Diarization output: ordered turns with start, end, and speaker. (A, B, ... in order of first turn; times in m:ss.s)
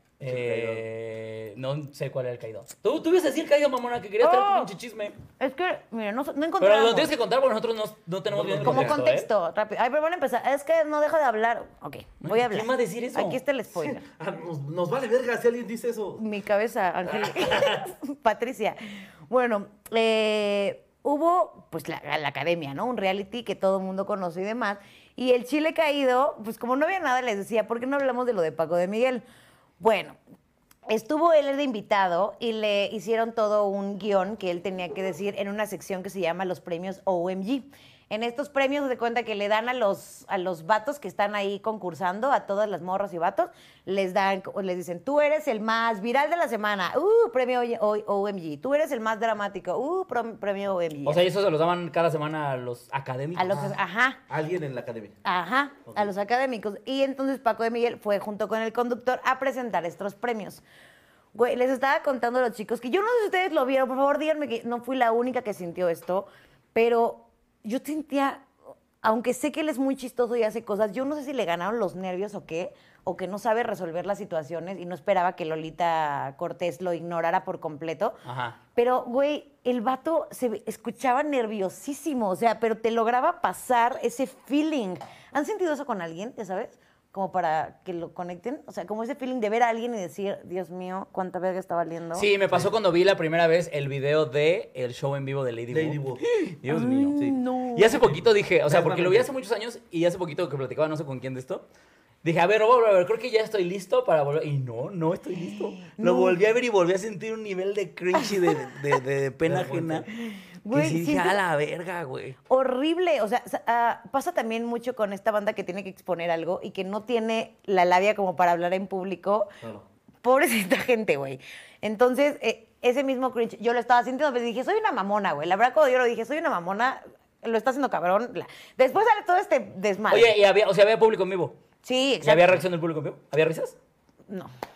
0:00.2-0:05.2 A
0:00.2-0:00.8 B
0:04.2-0:04.7 C
0:05.4-0:07.1 C
0:06.6-0:09.3 A
0:08.3-0:09.0 B
0:08.6-0:14.0 C
0:12.2-0:13.4 A
0:13.8-0:16.2 B
0:16.2-0:29.2 C
0:29.8-0:30.2 C
0:30.9-0:51.2 C
0:51.0-0:53.7 A
0:53.4-0:54.2 C
0:54.3-0:55.2 B
0:55.2-1:00.6 C
1:01.3-1:08.5 C
1:09.0-1:18.2 C
1:18.2-1:18.6 A
1:18.8-1:32.3 C
1:32.2-1:41.6 A
1:35.7-1:36.2 B
1:36.7-1:38.0 C
1:38.0-1:39.3 B
1:42.2-1:50.1 A
1:45.4-1:46.4 C
1:49.4-1:50.1 B
1:50.2-1:51.4 C
1:50.7-1:52.4 A
1:52.5-1:59.5 C
2:00.2-2:10.3 C
2:10.1-2:11.6 A
2:11.8-2:12.6 C
2:12.2-2:13.8 A